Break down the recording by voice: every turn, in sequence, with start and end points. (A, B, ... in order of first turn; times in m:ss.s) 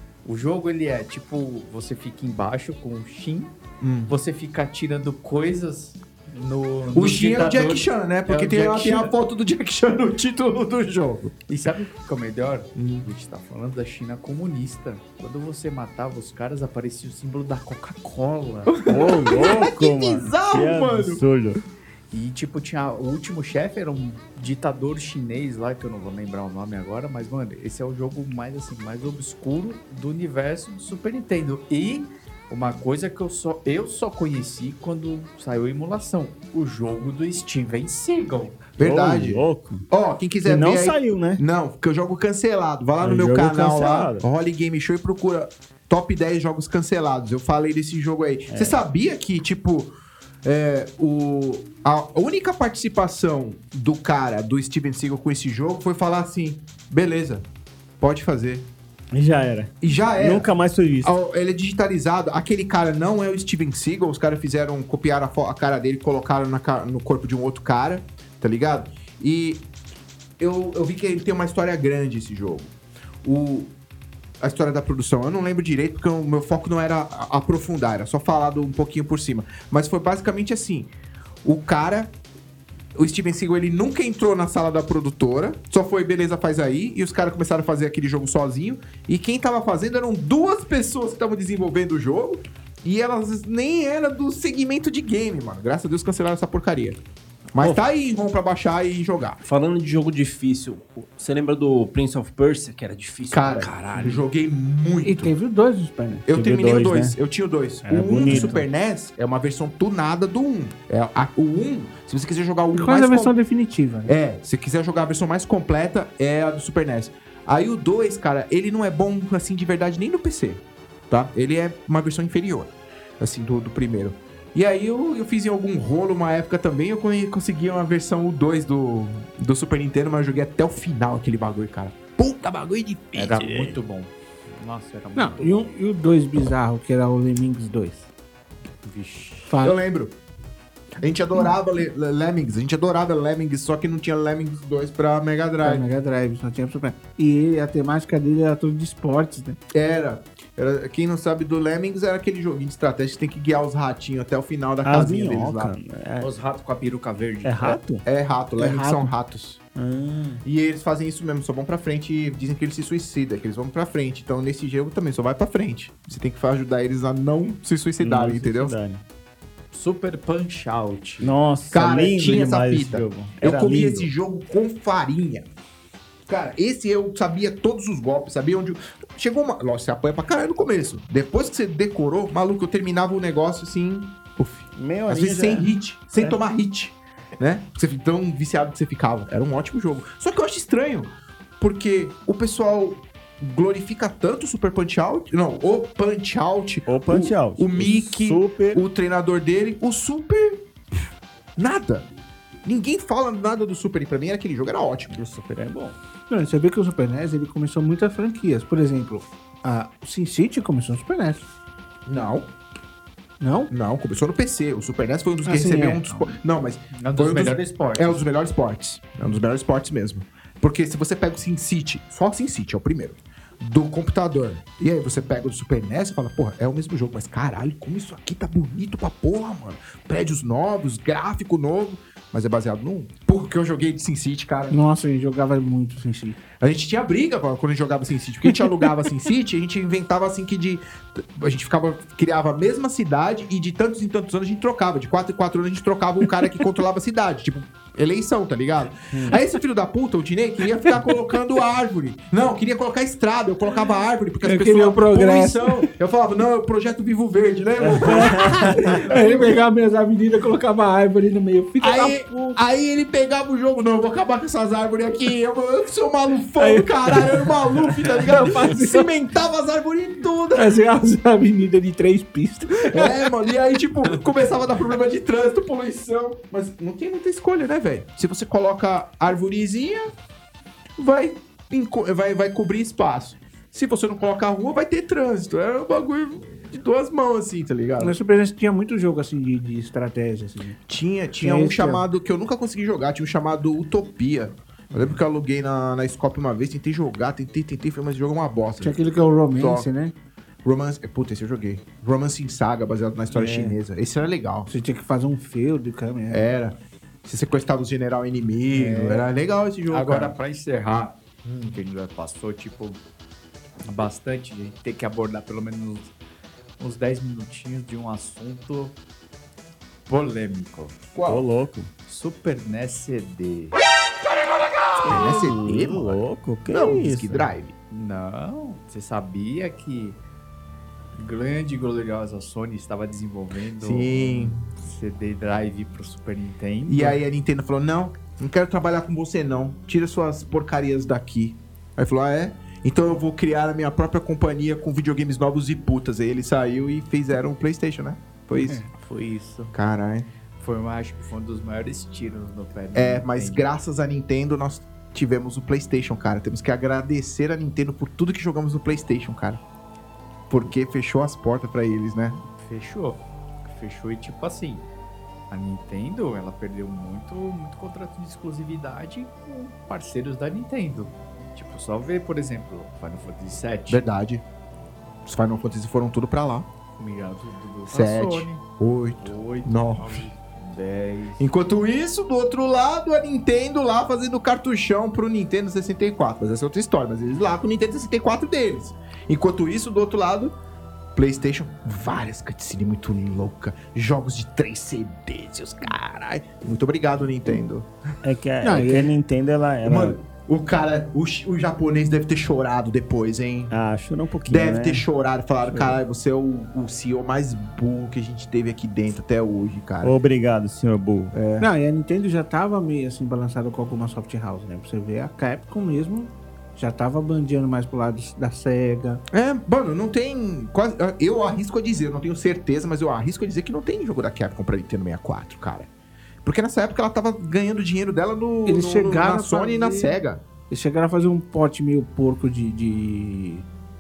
0:00.2-0:03.6 A
0:03.8-0:04.2 B
0:04.1-0:09.1 A
0:06.9-0:11.3 B
0:11.5-0:18.8 A
0:12.8-0:13.1 B
0:18.7-0:21.2 B
0:18.9-0:21.6 C
0:22.1-0:38.6 A
0:38.8-0:49.9 B
0:38.8-0:39.8 C
0:40.4-0:41.4 C
0:43.0-0:44.3 C
0:48.5-0:48.8 C
0:50.4-0:57.5 B
0:58.0-0:58.7 B
0:59.1-1:01.1 C
0:59.8-1:00.5 B
1:01.0-1:09.6 B
1:10.4-1:13.7 B
1:14.4-1:20.9 B
1:21.4-1:22.1 B
1:23.0-1:37.0 B
1:37.5-1:39.4 B
1:39.4-1:44.2 D
1:43.3-1:45.3 B
1:45.0-1:46.3 E
1:46.3-1:53.4 B
1:46.3-1:47.2 C
1:47.8-1:48.7 C
1:48.2-1:48.6 E
1:52.7-1:54.1 E
1:54.1-2:13.8 B
2:13.2-2:15.7 A
2:15.2-2:18.1 E
2:18.8-2:19.6 A
2:19.5-2:19.8 E
2:19.6-2:20.2 B
2:21.0-2:25.8 B
2:25.6-2:29.6 E
2:29.7-2:35.8 B
2:34.8-2:36.3 C
2:36.2-2:37.8 A
2:37.4-2:38.0 C
2:38.0-2:39.6 B
2:38.6-2:39.1 E
2:39.8-2:40.4 C
2:40.4-2:48.8 B
2:48.0-2:49.0 C
2:49.7-2:51.3 A
2:51.2-2:54.1 C
2:51.7-2:55.5 B
2:56.3-3:20.6 B
3:04.8-3:06.4 C
3:16.9-3:18.8 C
3:21.6-3:22.1 B
3:22.6-3:25.2 B
3:25.1-3:26.0 C
3:26.3-3:31.4 E
3:32.1-3:32.5 B
3:33.4-3:33.7 E
3:33.7-3:54.8 B
3:35.4-3:36.4 E
3:36.9-3:38.2 A
3:54.7-3:56.4 E
3:56.6-4:19.6 B
4:09.1-4:09.4 C
4:14.4-4:15.9 E
4:17.8-4:19.0 C
4:17.9-4:22.6 E
4:21.8-4:30.8 B
4:26.6-4:29.1 E
4:30.6-4:33.5 E
4:32.8-4:40.1 B
4:41.0-4:48.2 B
4:48.0-4:50.8 E
4:50.9-4:59.9 B
4:51.4-4:52.0 E
4:58.8-5:00.2 E
5:00.6-5:04.7 B
5:03.3-5:03.8 E
5:04.7-5:06.5 E
5:06.3-5:10.4 B
5:08.7-5:09.3 A
5:09.9-5:13.0 A
5:13.8-5:16.1 A
5:16.8-5:19.0 A
5:20.1-5:21.0 A
5:21.2-5:21.5 B
5:21.3-5:21.9 C
5:22.1-5:23.8 A
5:24.9-5:27.7 B
5:25.0-5:27.5 C
5:27.9-5:30.2 A
5:31.2-5:37.2 A
5:33.8-5:34.6 B
5:36.9-5:48.8 B
5:48.9-5:49.7 A
5:49.7-5:50.3 B
5:50.6-5:53.6 A
5:53.0-5:59.6 B
6:00.5-6:02.4 B
6:02.6-6:04.9 A
6:05.5-6:14.0 A
6:13.9-6:14.4 B
6:15.3-6:16.7 B
6:17.0-6:18.6 A
6:17.9-6:20.2 B
6:19.2-6:21.4 A
6:21.4-6:30.6 B
6:31.2-6:37.9 B
6:38.2-6:40.2 C
6:38.6-6:39.0 E
6:38.7-6:39.1 B
6:39.8-6:43.7 B
6:43.7-6:45.1 C
6:44.5-6:50.1 B
6:50.0-6:51.4 C
6:51.3-6:51.7 B
6:51.6-6:59.2 E
6:59.3-7:05.9 B
7:06.4-7:10.4 B
7:08.7-7:10.2 E
7:10.7-7:13.7 E